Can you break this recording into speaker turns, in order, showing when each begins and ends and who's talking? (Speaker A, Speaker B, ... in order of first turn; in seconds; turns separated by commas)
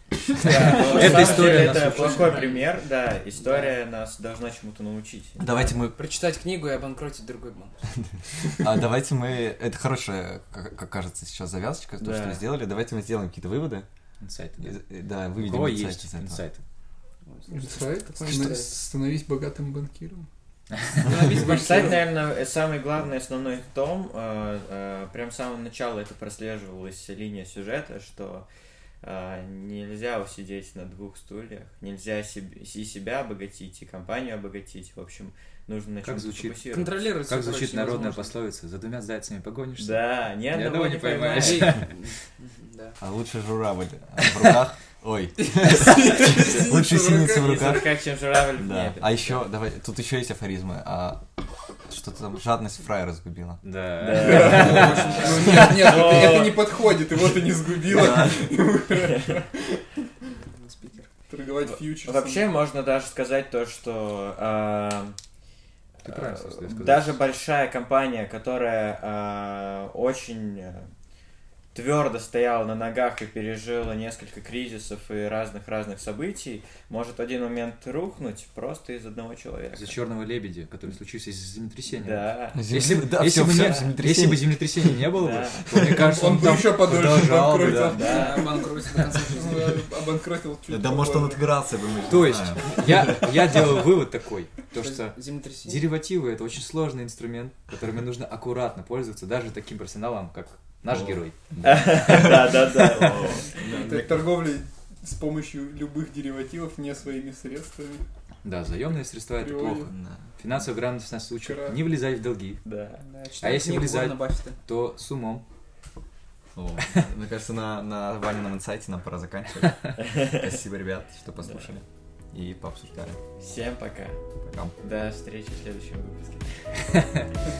Speaker A: 0.4-2.7, Speaker B: 0.4-5.4, Speaker C: 0.4-2.4, Speaker A: 3.4-3.8, Speaker D: 5.4-6.0, Speaker A: 5.5-7.9, Speaker D: 8.5-13.8, Speaker B: 12.0-12.4, Speaker C: 14.2-14.8, Speaker D: 14.6-16.4, Speaker C: 15.3-16.6, Speaker A: 17.3-18.7, Speaker E: 17.5-20.3, Speaker C: 20.7-21.1, Speaker A: 21.0-22.1, Speaker B: 21.2-28.5, Speaker E: 21.3-21.9, Speaker B: 29.0-37.1, Speaker C: 36.0-42.0, Speaker A: 36.7-38.4, Speaker B: 39.8-41.8, Speaker A: 41.3-43.0, Speaker D: 43.0-48.0, Speaker E: 45.6-47.8, Speaker B: 47.2-49.4, Speaker D: 48.5-51.2, Speaker D: 51.8-53.6, Speaker C: 53.6-55.7, Speaker B: 54.0-56.9, Speaker E: 54.2-59.8, Speaker D: 54.6-54.9, Speaker A: 54.8-55.4, Speaker D: 57.9-58.5, Speaker A: 60.3-61.1, Speaker E: 61.3-62.5, Speaker B: 61.6-65.2, Speaker C: 66.0-67.2, Speaker B: 66.0-70.9, Speaker B: 71.7-80.0, Speaker C: 79.7-86.9, Speaker B: 81.9-82.6, Speaker D: 82.5-88.2, Speaker B: 83.3-83.9, Speaker B: 85.1-85.6, Speaker E: 85.9-91.5, Speaker A: 87.8-89.8, Speaker B: 87.9-88.5, Speaker D: 90.7-93.6, Speaker C: 92.1-103.2, Speaker A: 94.8-95.9, Speaker D: 100.9-104.2, Speaker B: 101.6-103.6, Speaker E: 103.5-108.0, Speaker C: 108.4-112.6, Speaker E: 109.4-109.9, Speaker D: 109.9-110.3, Speaker E: 111.4-111.8, Speaker B: 112.6-113.0, Speaker A: 113.0-114.6, Speaker C: 113.4-115.4, Speaker D: 116.5-123.2, Speaker B: 120.0-120.5, Speaker B: 121.4-121.7, Speaker B: 123.4-124.2, Speaker D: 124.4-124.8, Speaker B: 124.8-127.1